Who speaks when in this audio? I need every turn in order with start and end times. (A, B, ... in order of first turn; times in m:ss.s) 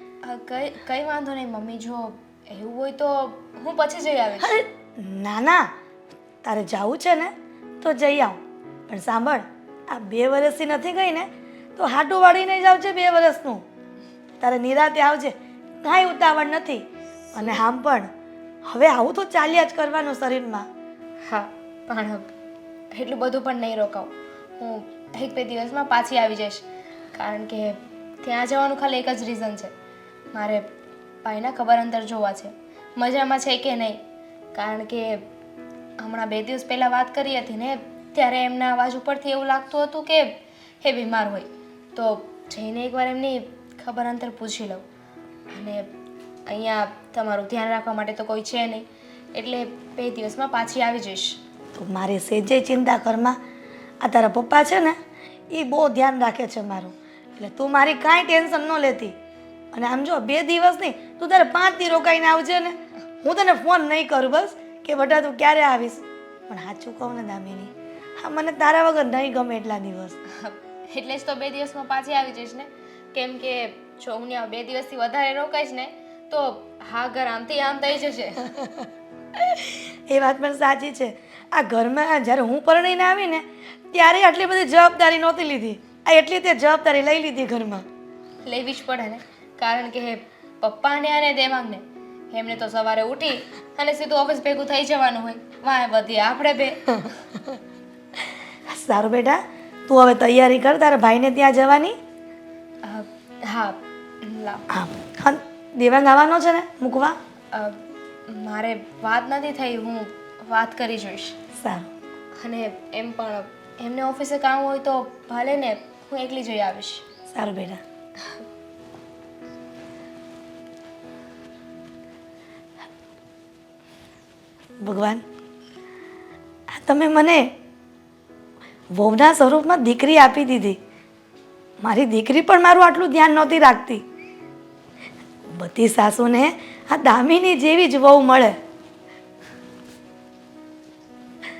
0:00.2-0:04.6 A
0:04.4-0:05.7 B
0:06.4-0:13.6 B
0:14.4-0:18.1 B
0:18.6-0:20.7 B
0:21.3-0:22.3 A
0:22.9-0:29.7 A
0:30.3-0:30.7 A
0:31.2-0:34.0 A
0:34.5-0:35.3 A
0:36.0-0:44.8 A
0:45.5-0:45.8 A
0:46.5-0:51.4 A
0:51.7-0:53.4 B
0:54.0-0:55.0 B
0:55.5-0:59.1 B
0:59.7-1:10.2 B
1:10.4-1:18.5 A
1:18.5-1:18.9 B
1:19.5-1:27.8 B
1:28.4-1:37.1 A
1:38.7-1:42.0 B
1:42.8-1:44.6 A
1:44.7-1:47.2 B
1:47.5-1:51.3 A
1:51.6-1:51.9 B
1:52.4-1:57.0 A
1:57.3-1:57.8 B
2:04.8-2:05.2 B
2:06.7-2:07.5 B
2:08.9-2:10.8 B
2:11.8-2:14.0 B
2:15.5-2:18.6 B